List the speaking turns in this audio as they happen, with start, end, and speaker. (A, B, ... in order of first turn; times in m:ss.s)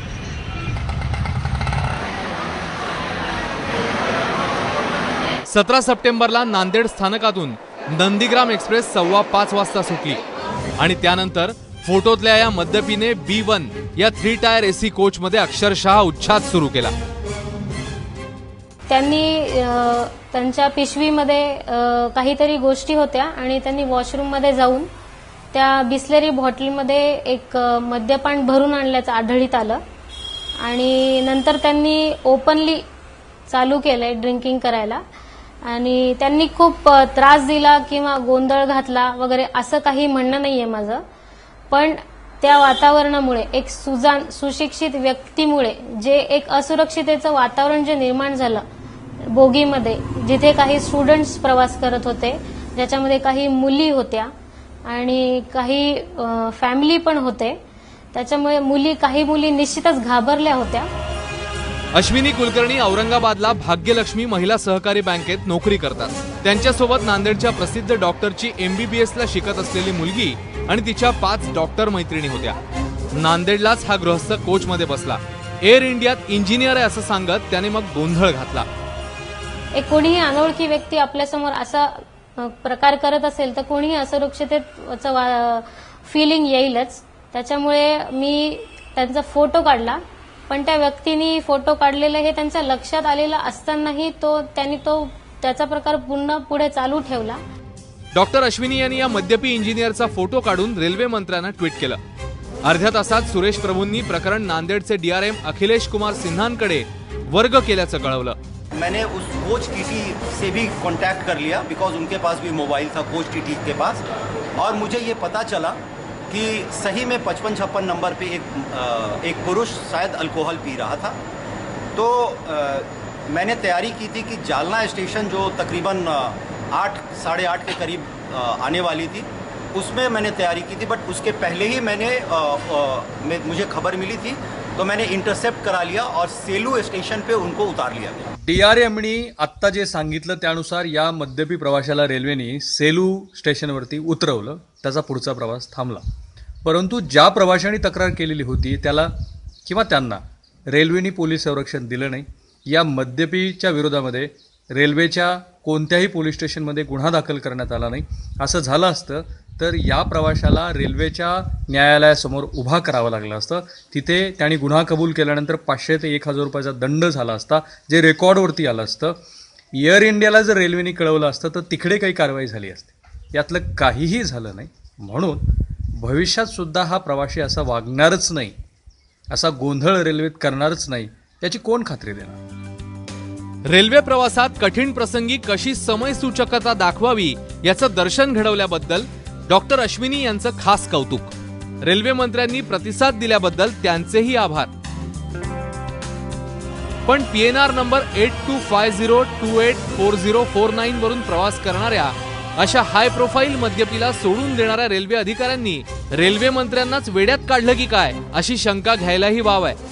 0:05.5-0:10.2 A
0:10.8-0:16.9 A
0:18.9-0:24.9 B
0:25.5-0:29.8 B
0:30.6-0:32.8 B
0:33.5-0:35.0 B
0:35.6-0:41.0 B
0:41.7-0:48.6 B
0:49.2-0:54.3 B
0:54.8-0:57.6 B
0:58.1-1:00.9 B
1:01.9-1:12.6 A
1:13.1-1:18.7 A
1:19.7-1:37.4 B
1:38.1-1:42.0 A
1:42.6-1:48.4 A
1:48.8-1:54.0 C
1:54.6-1:55.8 C
1:56.3-2:01.2 C
2:01.9-2:18.3 C
2:18.4-2:26.0 D
2:26.6-2:29.1 D
2:29.6-2:49.2 D
2:49.8-2:55.4 D
2:56.0-2:58.5 D
2:59.3-3:02.4 D
3:03.7-3:11.3 A
3:11.8-3:14.7 A
3:17.0-3:29.8 A